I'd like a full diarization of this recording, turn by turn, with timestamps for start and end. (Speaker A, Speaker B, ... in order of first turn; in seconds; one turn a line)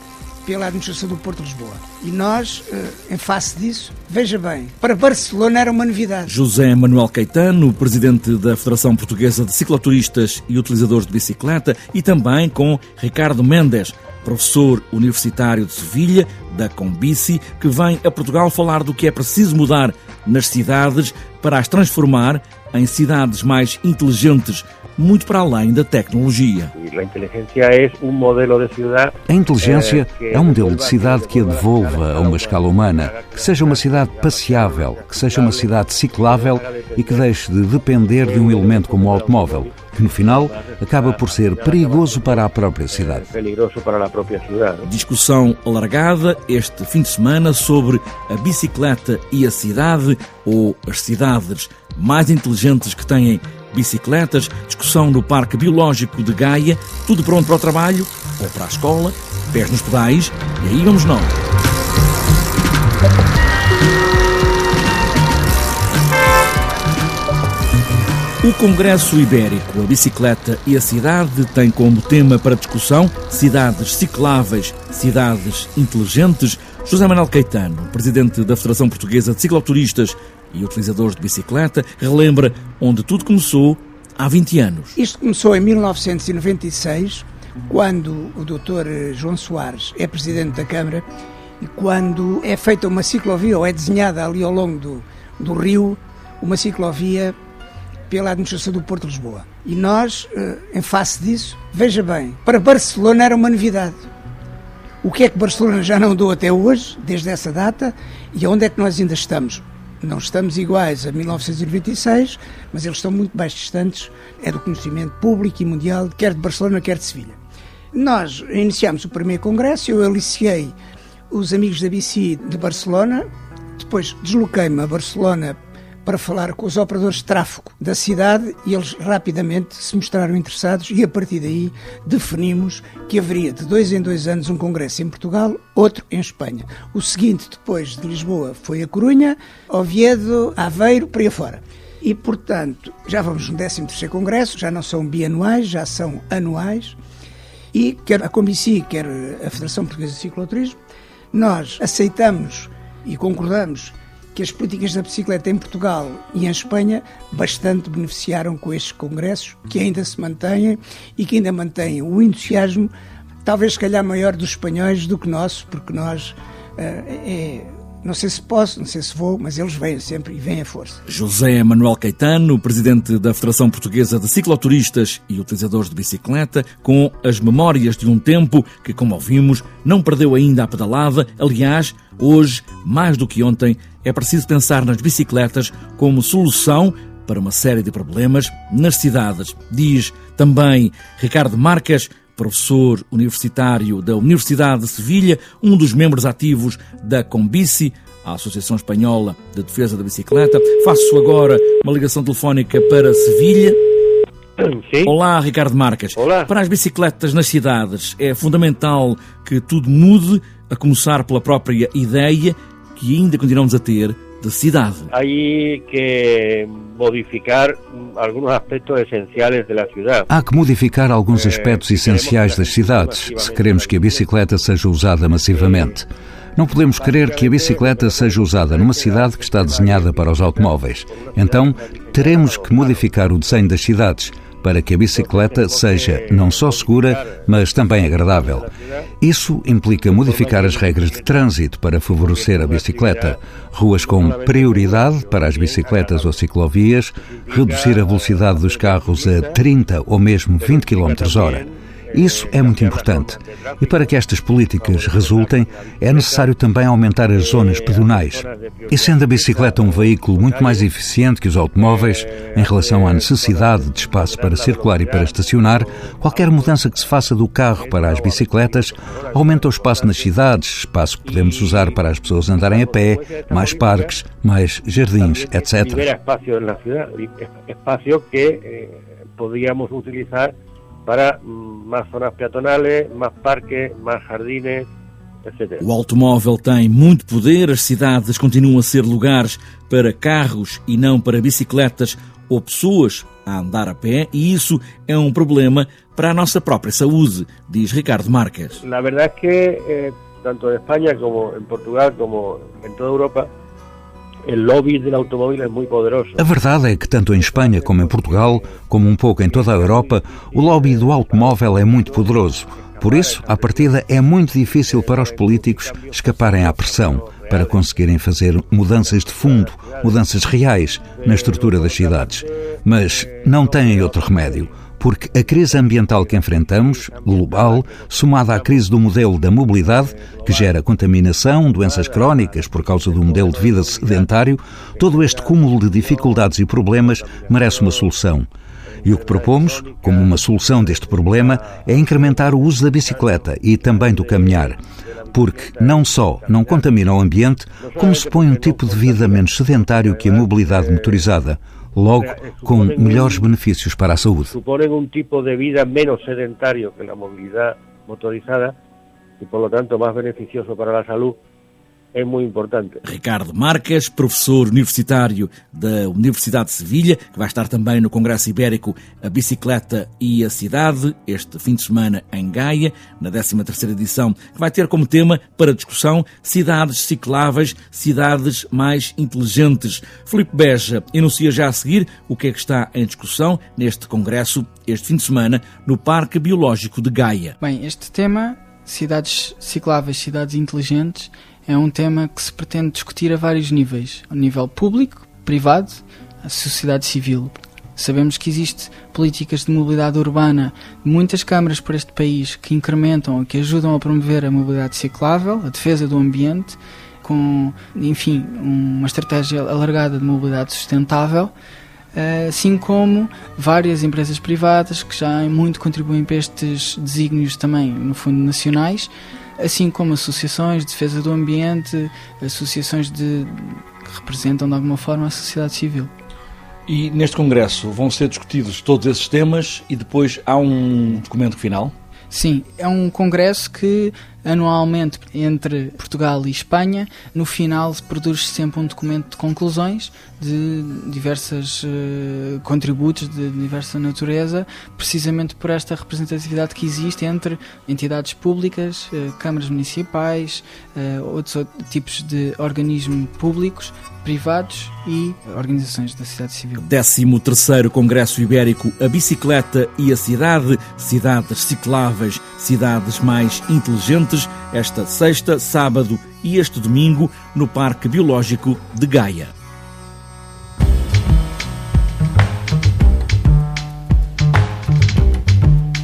Speaker A: 0.4-6.3
Speaker B: 6.2-26.7
Speaker C: 26.8-37.3
Speaker D: 29.3-43.3
Speaker C: 38.1-44.9
Speaker B: 44.8-61.4
Speaker B: 68.4-85.0
Speaker A: 85.0-91.0
Speaker A: 91.6-97.3
Speaker A: 98.1-104.0
Speaker A: 105.0-117.4
Speaker A: 117.9-120.7
Speaker A: 121.3-147.0
Speaker A: 147.7-150.8
Speaker A: 151.3-162.9
Speaker A: 163.4-171.0
Speaker B: 171.1-203.8
Speaker C: 204.6-205.1
Speaker B: 205.0-215.1
Speaker C: 206.2-206.5
Speaker C: 215.1-220.3
Speaker D: 220.3-238.7
Speaker C: 221.3-224.4
Speaker C: 225.3-225.9
Speaker C: 226.8-233.7
Speaker C: 235.1-239.1
Speaker D: 239.2-276.1
Speaker C: 240.1-241.5
Speaker C: 242.2-243.4
Speaker C: 243.9-246.4
Speaker C: 247.3-249.6
Speaker C: 250.6-256.5
Speaker C: 257.3-260.9
Speaker C: 261.8-267.0
Speaker C: 267.7-270.4
Speaker C: 271.2-272.0
Speaker C: 272.5-274.1
Speaker C: 275.2-280.5
Speaker C: 281.1-284.9
Speaker C: 285.4-285.8
Speaker B: 285.8-298.8
Speaker C: 298.8-303.5
Speaker C: 304.4-306.5
Speaker D: 306.4-338.5
Speaker C: 307.3-308.8
Speaker C: 309.4-318.1
Speaker C: 318.9-320.2
Speaker C: 321.1-322.5
Speaker C: 323.0-324.8
Speaker C: 325.5-328.9
Speaker C: 329.4-330.8
Speaker C: 331.8-334.4
Speaker C: 335.0-338.1
Speaker D: 339.0-344.8
Speaker C: 339.0-347.1
Speaker D: 345.3-354.5
Speaker C: 347.8-351.3
Speaker C: 352.2-353.5
Speaker C: 354.5-358.7
Speaker C: 359.4-361.4
Speaker C: 362.1-363.0
Speaker B: 363.0-387.6
Speaker E: 387.6-411.5
Speaker E: 412.1-426.1
Speaker B: 426.9-431.9
Speaker E: 432.3-456.9
Speaker B: 456.8-469.5